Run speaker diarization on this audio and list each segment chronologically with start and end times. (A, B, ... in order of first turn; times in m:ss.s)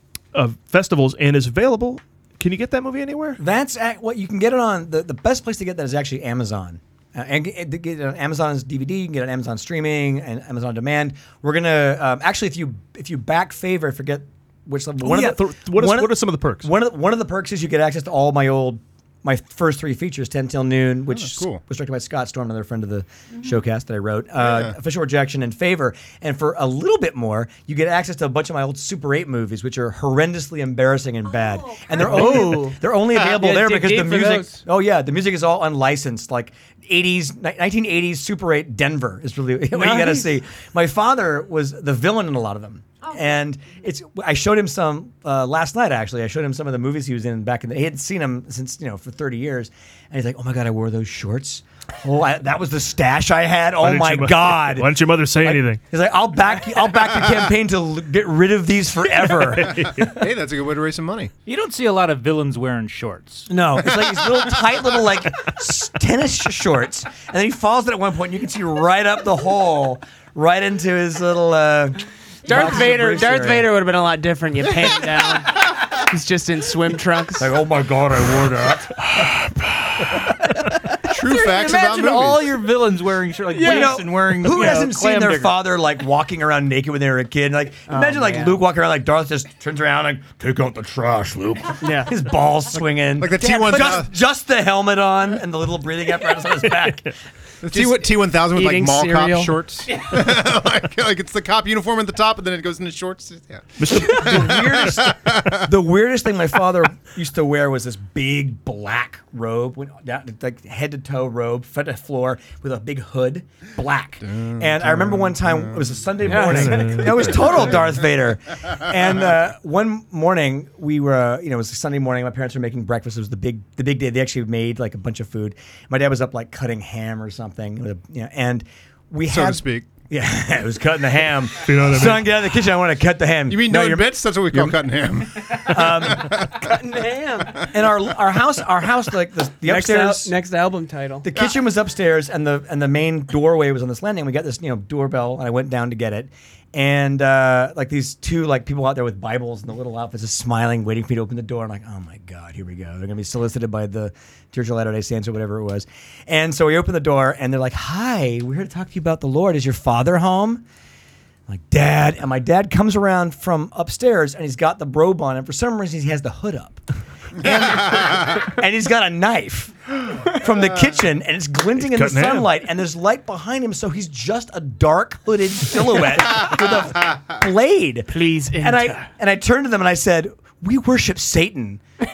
0:00.3-0:03.4 A
0:03.4-0:59.9 B
0:15.0-0:16.7 A
0:21.1-0:21.6 C
0:24.4-0:24.8 C
0:31.9-0:34.7 D
0:39.7-0:40.4 D
0:53.8-0:55.8 A
0:59.6-1:00.1 A
0:59.9-1:01.3 C
1:01.5-1:03.5 E
1:03.5-1:13.7 B
1:12.5-1:17.5 D
1:17.4-1:19.0 B
1:21.1-1:22.6 C
1:21.3-1:25.6 E
1:23.5-1:24.9 D
1:23.6-1:37.1 B
1:27.9-1:28.6 D
1:31.8-1:32.1 D
1:33.2-1:34.1 C
1:37.6-1:45.7 C
1:38.5-1:39.6 D
1:43.8-1:44.9 A
1:44.2-2:14.8 B
1:54.2-1:56.3 C
1:56.2-1:57.6 D
1:56.3-1:57.5 A
1:57.4-1:57.9 C
2:09.3-2:09.9 C
2:11.6-2:12.3 A
2:13.5-2:16.7 C
2:15.7-2:16.5 B
2:16.6-2:17.7 D
2:17.6-2:20.3 B
2:19.6-2:21.3 D
2:21.2-2:40.6 B
2:41.5-2:46.8 B
2:47.4-3:01.8 B
2:51.8-2:52.5 A
2:58.1-2:59.1 D